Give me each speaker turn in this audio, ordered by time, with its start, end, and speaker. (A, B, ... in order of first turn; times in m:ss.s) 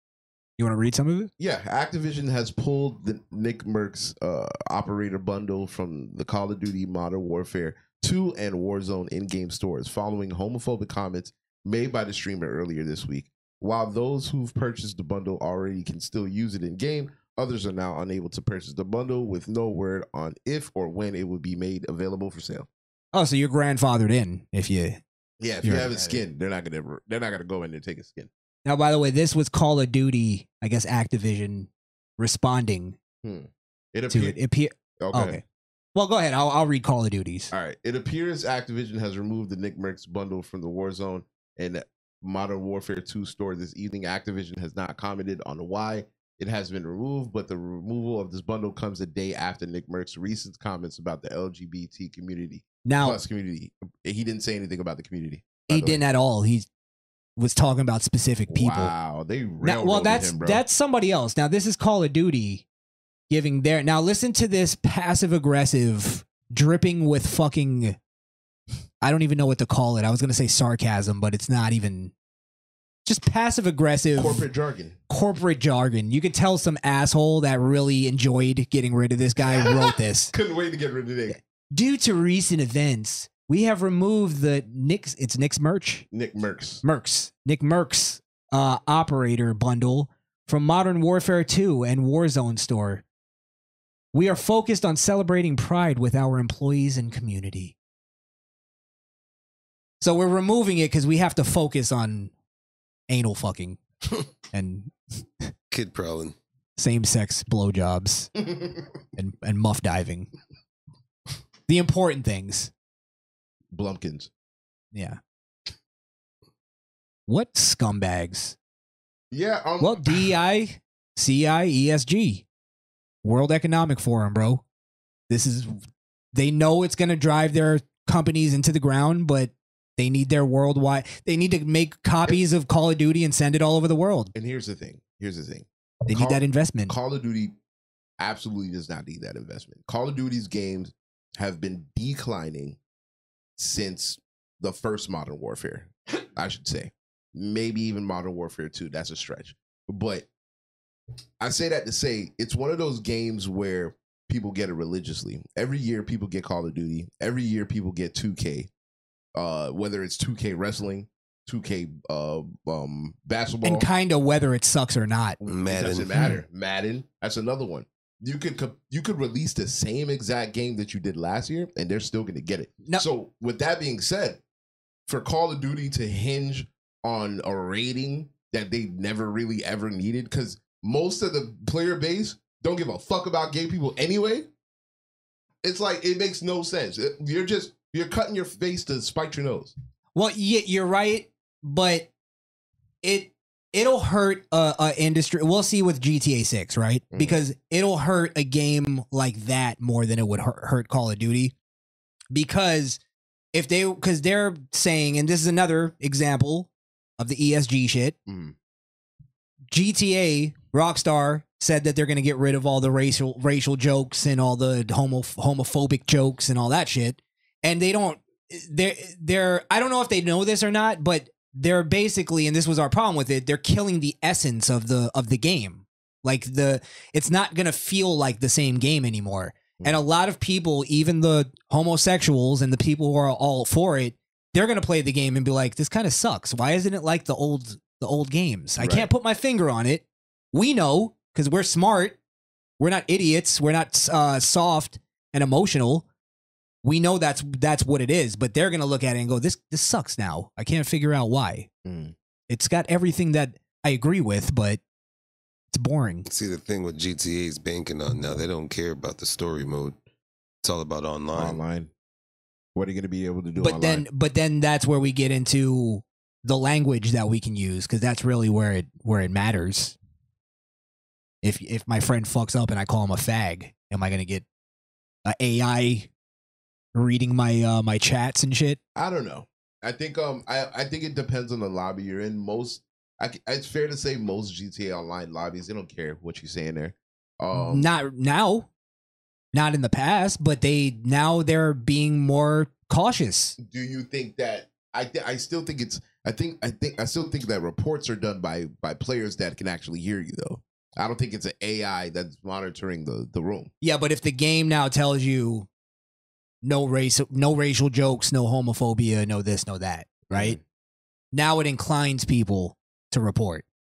0:00.6-0:01.3 A
0:01.4-0:22.7 B
0:23.1-0:25.0 A
0:25.4-0:28.3 B
0:25.6-0:26.2 A
0:28.6-0:33.0 A
0:33.2-0:34.4 B
0:34.1-0:35.4 A
0:35.0-0:35.4 B
0:35.9-0:37.5 A
0:37.5-0:56.0 B
0:52.8-0:53.2 A
0:55.7-0:56.7 A
0:57.4-0:58.9 A
0:58.5-1:00.6 B
0:59.6-1:02.6 A
1:03.3-1:08.0 A
1:09.0-1:12.1 A
1:13.0-1:14.4 A
1:14.1-1:15.0 B
1:15.1-1:20.3 A
1:19.4-1:21.4 B
1:21.7-1:26.1 A
1:26.1-1:26.8 B
1:26.8-1:33.0 A
1:34.1-1:37.7 A
1:40.0-1:42.3 A
1:43.1-1:43.8 A
1:44.5-1:44.9 A
1:45.7-1:46.4 C
1:46.8-1:48.3 A
1:48.4-1:48.8 B
1:49.2-1:50.3 A
1:51.7-1:52.7 A
1:53.7-1:54.3 B
1:54.9-1:55.2 A
1:57.3-1:58.6 A
1:59.3-2:00.3 B
1:59.8-2:02.4 A
2:03.2-2:04.6 A
2:05.3-2:05.8 A
2:06.3-2:14.3 A
2:14.3-2:17.5 B
2:16.1-2:16.9 A
2:18.2-2:22.8 B
2:23.6-2:30.3 B
2:31.4-2:38.7 B
2:39.3-2:43.9 B
2:43.6-2:45.4 A
2:45.4-2:54.4 B
2:45.4-2:46.3 C
2:55.1-3:04.5 B
3:05.6-3:09.7 B
3:10.1-3:12.1 A
3:13.0-3:21.5 A
3:17.1-3:17.4 B
3:22.3-3:23.0 A
3:23.5-3:28.2 A
3:28.3-3:28.5 B
3:29.7-4:02.2 A
3:58.8-3:59.1 B
4:02.8-4:06.1 A
4:06.8-4:11.7 A
4:11.8-4:12.1 B
4:12.5-4:14.8 A
4:15.7-4:16.3 A
4:16.3-4:20.0 C
4:20.6-4:21.6 C
4:21.3-4:21.9 B
4:22.7-4:24.0 B
4:23.6-4:30.0 A
4:31.4-4:34.4 A
4:35.2-4:36.1 A
4:36.9-4:38.8 A
4:38.9-4:47.9 B
4:47.5-4:48.7 A
4:49.5-4:53.6 A
4:53.6-5:03.7 B
5:03.8-5:05.7 A
5:06.6-5:10.6 A
5:10.3-5:10.6 B
5:11.3-5:13.6 A